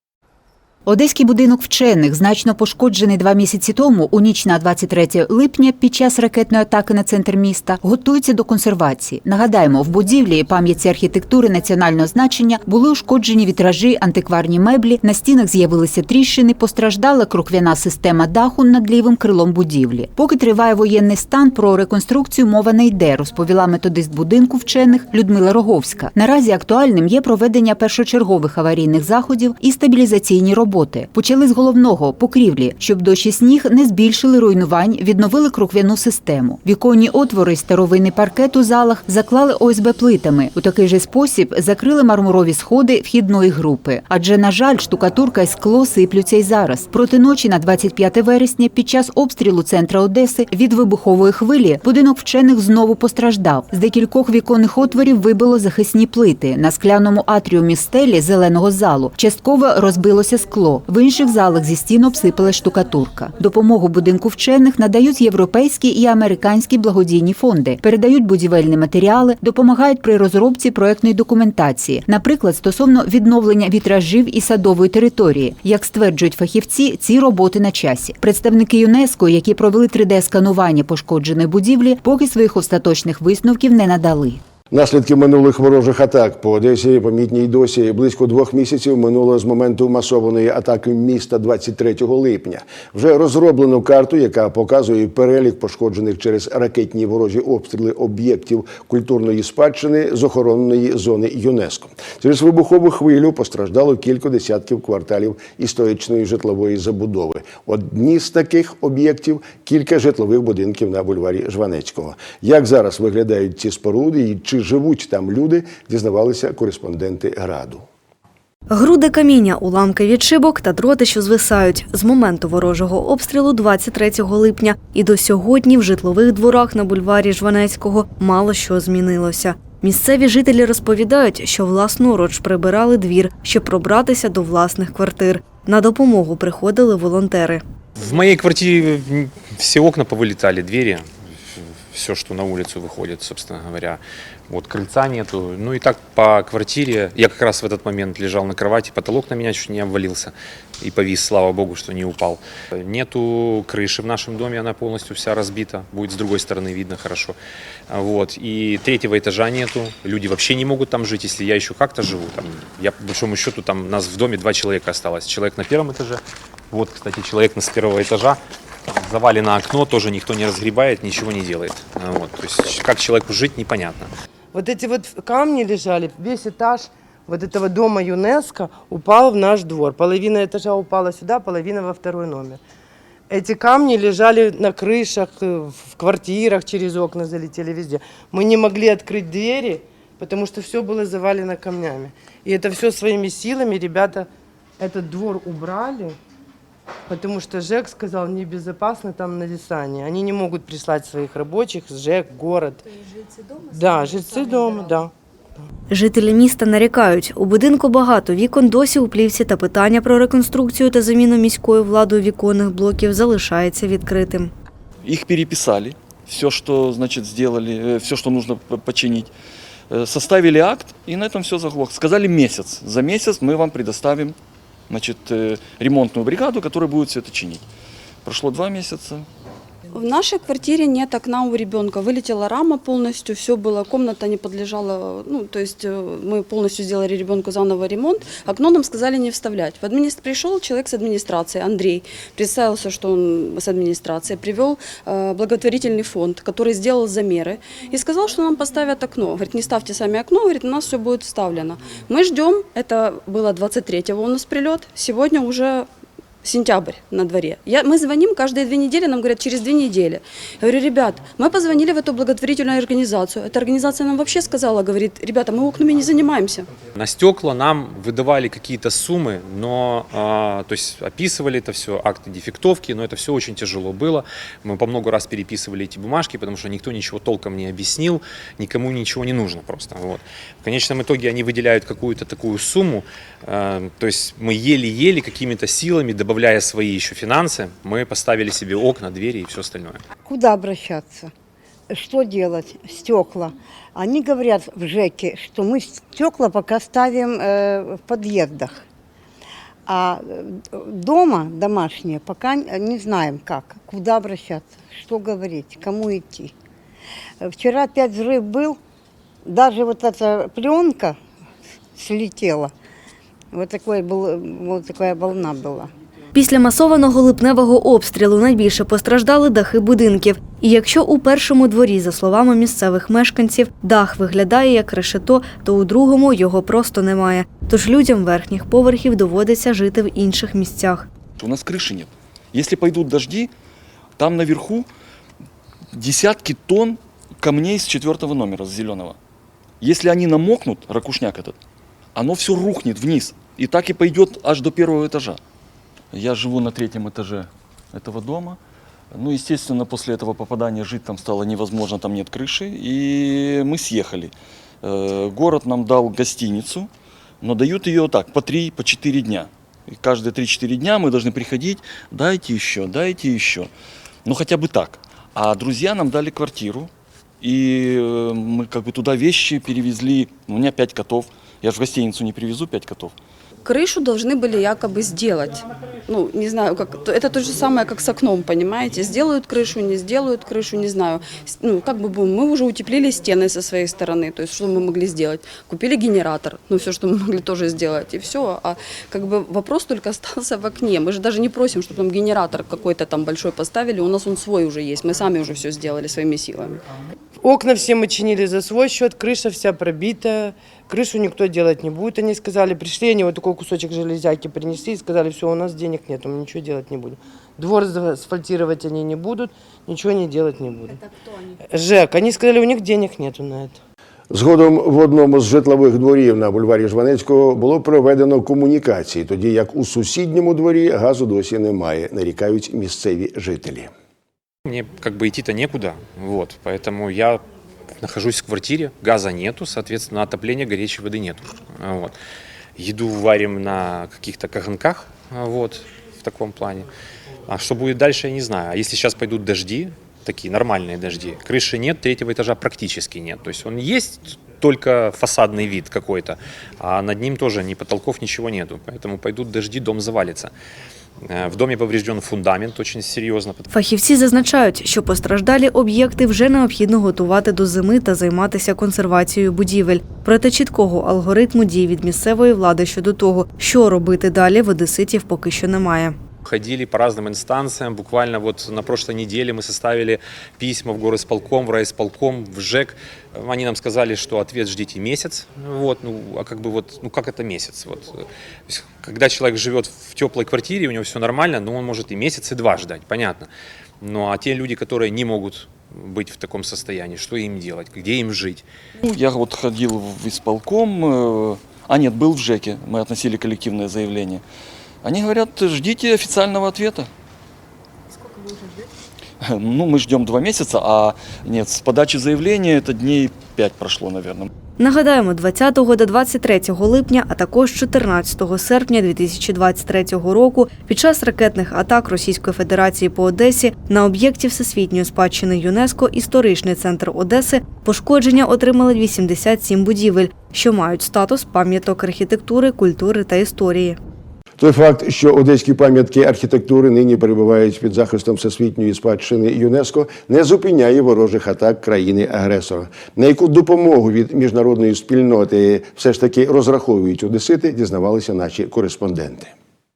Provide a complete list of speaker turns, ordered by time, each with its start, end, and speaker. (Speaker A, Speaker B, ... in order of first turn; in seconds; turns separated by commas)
Speaker A: 0.9-84.4, Speaker B: 84.7-117.9, Speaker C: 118.7-137.6, Speaker D: 138.0-157.4, Speaker D: 157.9-174.1, Speaker E: 174.5-182.6, Speaker E: 183.3-194.3, Speaker E: 194.8-196.2, Speaker E: 197.1-202.8, Speaker E: 203.7-205.1, Speaker C: 205.9-214.5, Speaker F: 215.0-219.3, Speaker F: 219.9-224.4, Speaker F: 224.9-227.7, Speaker F: 228.2-229.3, Speaker G: 229.9-255.9, Speaker G: 256.4-266.7, Speaker D: 266.9-290.0, Speaker H: 290.2-291.3, Speaker H: 291.9-298.9, Speaker H: 299.9-306.5, Speaker H: 307.4-308.8, Speaker H: 309.4-311.2, Speaker H: 312.0-312.7, Speaker H: 313.5-315.9, Speaker C: 316.4-331.1, Speaker F: 331.4-333.5, Speaker F: 334.2-334.9, Speaker F: 335.9-339.2, Speaker F: 339.8-341.6, Speaker F: 342.1-345.4, Speaker F: 346.1-348.6, Speaker F: 349.1-356.9, Speaker F: 357.4-363.7, Speaker F: 364.2-366.9, Speaker F: 367.4-373.1, Speaker G: 373.6-396.8, Speaker E: 397.4-411.0, Speaker E: 411.7-413.8, Speaker B: 414.3-423.9, Speaker D: 424.6-427.4, Speaker D: 428.0-432.1, Speaker D: 432.8-436.9, Speaker D: 437.5-450.5, Speaker D: 451.2-453.7, Speaker C: 453.7-466.2, Speaker D: 466.4-483.5, Speaker D: 484.0-488.6, Speaker F: 489.0-494.4, Speaker F: 495.0-497.1, Speaker F: 499.4-504.5, Speaker C: 504.8-524.0, Speaker B: 524.6-539.5